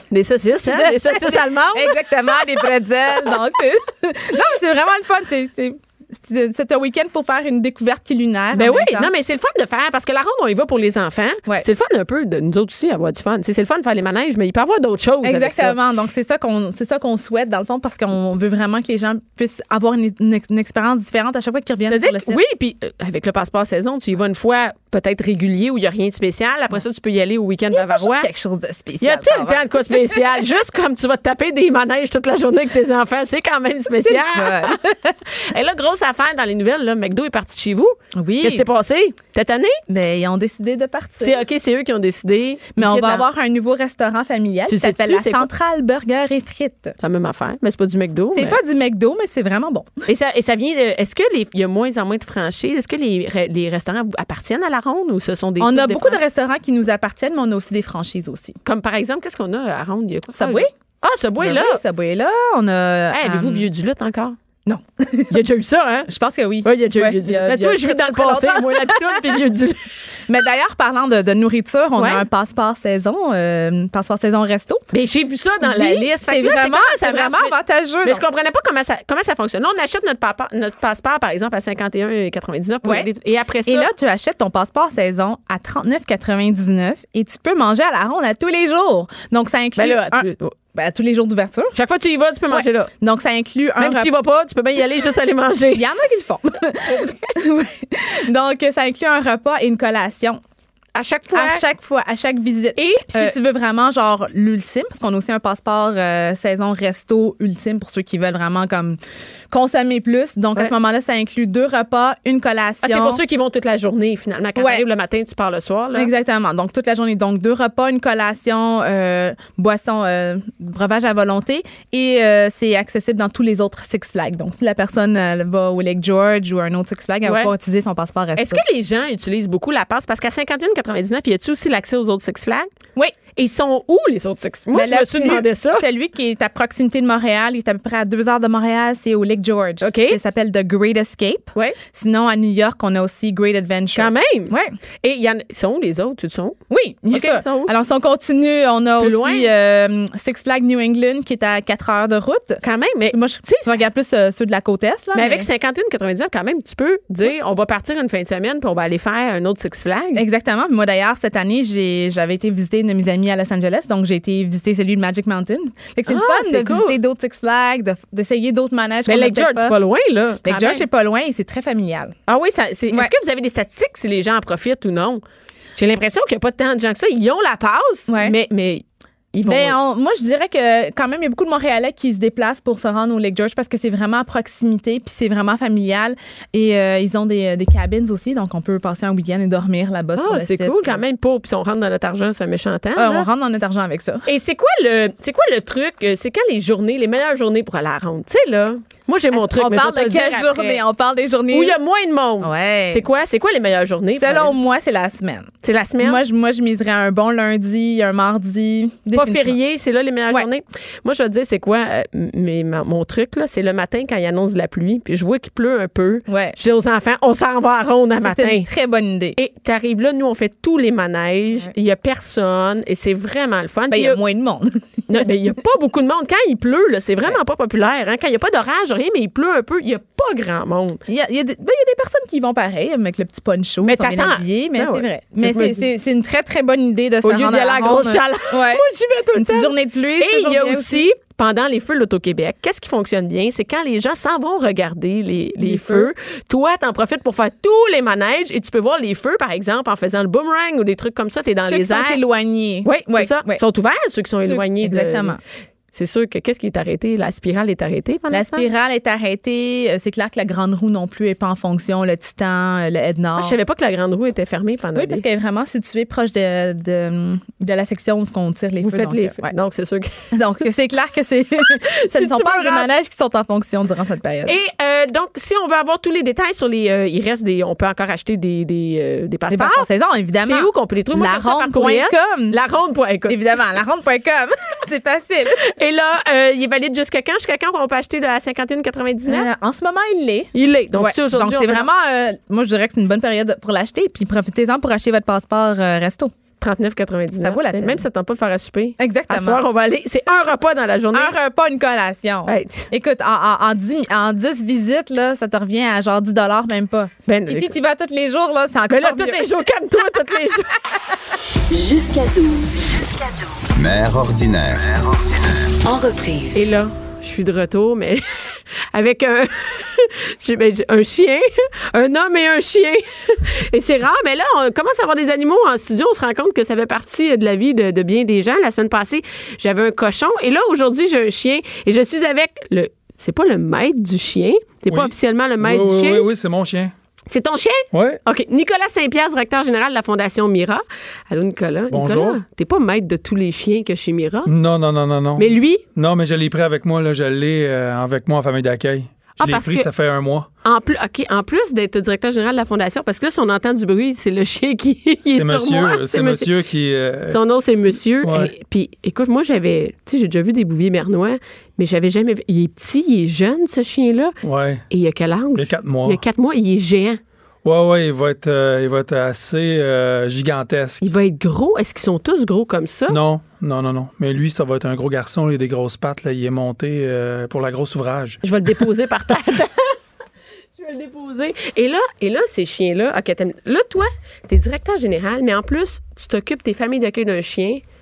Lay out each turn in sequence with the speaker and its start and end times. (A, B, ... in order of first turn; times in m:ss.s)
0:00.1-0:02.0 A
0:00.7-0:09.1 B
0:08.5-0:15.8 A
0:15.2-0:22.4 B
0:21.9-0:28.3 A
0:27.7-0:30.4 B
0:29.0-0:34.8 A
0:34.0-0:35.2 B
0:35.4-0:39.8 A
0:38.1-0:38.7 B
0:39.9-0:41.4 B
0:41.2-0:43.2 A
0:42.8-0:47.0 B
0:44.7-0:45.5 A
0:47.0-0:48.6 A
0:48.3-0:50.0 B
0:50.1-0:56.2 A
0:55.6-0:58.6 B
0:58.6-1:01.8 A
1:00.3-1:00.7 B
1:01.4-1:03.6 B
1:03.1-1:04.4 A
1:04.6-1:05.4 B
1:05.3-1:06.1 A
1:06.1-1:09.4 B
1:06.6-1:09.8 A
1:10.3-1:14.9 B
1:12.0-1:12.2 A
1:14.9-1:23.9 A
1:15.6-1:18.2 B
1:22.8-1:23.1 B
1:23.6-1:31.7 B
1:29.8-1:30.5 A
1:31.7-1:32.9 A
1:32.5-1:34.1 B
1:33.8-1:35.8 A
1:35.7-1:40.4 B
1:40.9-1:41.6 A
1:41.3-1:49.0 B
1:42.8-1:43.3 A
1:49.5-1:53.2 B
1:52.8-1:56.1 A
1:54.6-1:54.8 B
1:55.9-2:08.6 B
2:07.2-2:07.5 A
2:08.4-2:12.7 A
2:13.4-2:15.8 A
2:14.7-2:24.7 B
2:19.8-2:20.2 A
2:23.9-2:26.6 A
2:26.7-2:35.5 B
2:27.1-2:27.7 A
2:29.0-2:29.5 A
2:32.6-2:33.7 A
2:35.1-2:40.2 A
2:40.1-2:49.8 B
2:46.1-2:47.0 A
2:49.1-2:50.8 A
2:50.4-2:52.1 B
2:52.3-2:55.2 A
2:55.8-2:59.8 A
2:58.1-2:58.4 B
2:59.4-3:11.0 B
3:10.2-3:13.3 A
3:13.0-3:14.2 B
3:14.2-3:20.8 A
3:19.3-3:21.8 B
3:21.5-3:24.5 A
3:22.4-3:23.0 B
3:24.2-3:29.6 B
3:25.6-3:26.2 A
3:29.1-3:38.7 A
3:36.3-3:36.6 B
3:38.2-3:39.4 B
3:39.4-3:44.2 A
3:43.9-3:45.5 B
3:45.1-3:51.0 A
3:51.1-4:01.1 B
3:53.8-3:55.8 A
3:57.2-4:12.2 A
4:05.6-4:06.1 B
4:11.6-4:13.6 B
4:12.8-4:15.4 A
4:14.4-4:15.4 B
4:15.9-4:18.7 A
4:18.3-4:23.6 B
4:23.4-4:25.2 A
4:24.9-4:29.5 B
4:28.8-4:30.2 A
4:30.3-4:34.6 B
4:31.9-4:32.9 A
4:34.4-4:39.8 A
4:39.5-4:42.6 B
4:40.4-4:43.6 A
4:43.3-4:45.6 B
4:45.6-4:49.5 A
4:49.3-4:56.3 B
4:50.5-4:51.8 A
4:56.6-5:01.3 A
4:57.4-4:58.0 B
4:59.0-4:59.6 B
5:01.1-5:10.4 B
5:02.4-5:02.9 A
5:07.3-5:07.8 A
5:08.9-5:10.7 A
5:11.7-5:13.3 C
5:13.7-5:15.7 D
5:15.8-5:16.7 C
5:16.5-5:18.2 A
5:18.9-5:36.3 A
5:34.9-5:36.9 E
5:37.3-5:44.5 A
5:37.9-5:38.2 E
5:41.9-5:42.4 E
5:44.4-5:50.5 E
5:45.4-5:45.8 A
5:49.4-5:49.9 A
5:50.6-5:56.5 A
5:55.3-5:58.5 E
5:57.3-6:04.3 A
6:04.4-6:04.8 E
6:04.9-6:07.2 A
6:05.5-6:06.2 E
6:07.6-6:11.0 E
6:11.0-6:13.2 A
6:13.1-6:18.8 E
6:18.4-6:19.9 A
6:20.8-6:27.8 A